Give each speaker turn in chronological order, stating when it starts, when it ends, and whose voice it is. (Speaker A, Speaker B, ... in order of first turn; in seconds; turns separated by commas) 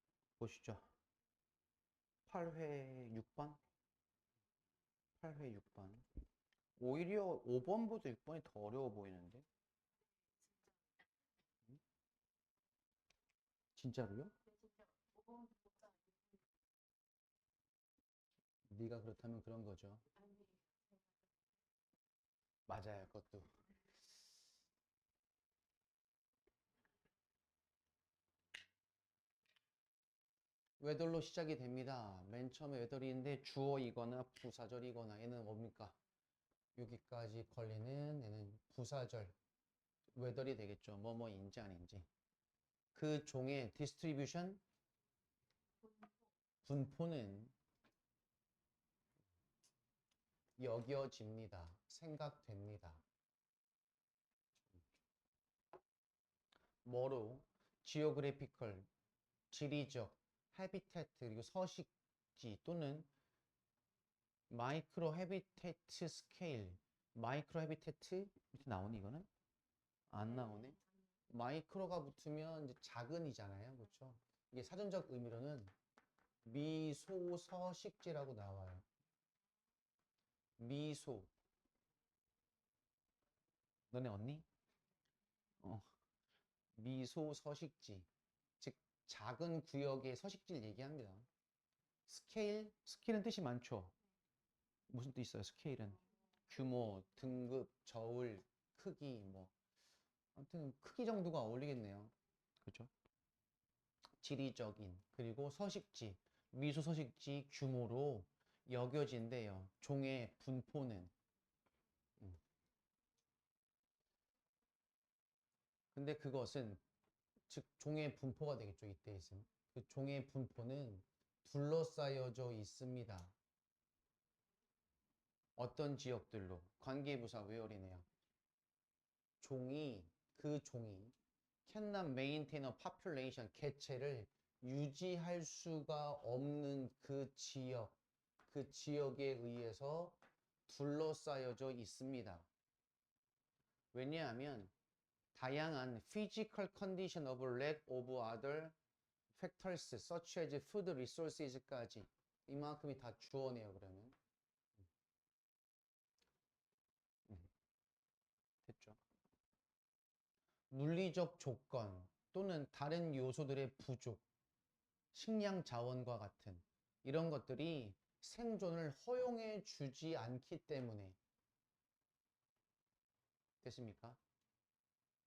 Speaker A: 0.4-0.9, Speaker A: 2.3-3.6, Speaker A: 5.2-6.0, Speaker A: 6.8-9.4, Speaker A: 13.8-14.3, Speaker A: 18.7-20.0, Speaker A: 22.7-23.5, Speaker A: 30.8-36.0, Speaker A: 36.8-39.4, Speaker A: 40.1-42.1, Speaker A: 42.9-44.6, Speaker A: 46.6-47.5, Speaker A: 50.6-53.0, Speaker A: 56.8-58.9, Speaker A: 59.5-63.1, Speaker A: 64.5-69.3, Speaker A: 70.1-70.8, Speaker A: 71.3-75.7, Speaker A: 76.4-78.8, Speaker A: 80.6-81.3, Speaker A: 83.9-84.5, Speaker A: 86.8-88.1, Speaker A: 88.6-91.3, Speaker A: 92.1-94.0, Speaker A: 94.9-99.5, Speaker A: 100.3-102.9, Speaker A: 104.2-111.1, Speaker A: 115.9-116.8, Speaker A: 117.5-123.3, Speaker A: 125.6-128.1, Speaker A: 129.4-131.1, Speaker A: 131.7-142.5, Speaker A: 143.9-144.7, Speaker A: 145.3-148.7, Speaker A: 149.3-154.1, Speaker A: 158.7-159.0, Speaker A: 160.7-164.2, Speaker A: 165.1-171.2, Speaker A: 173.6-174.2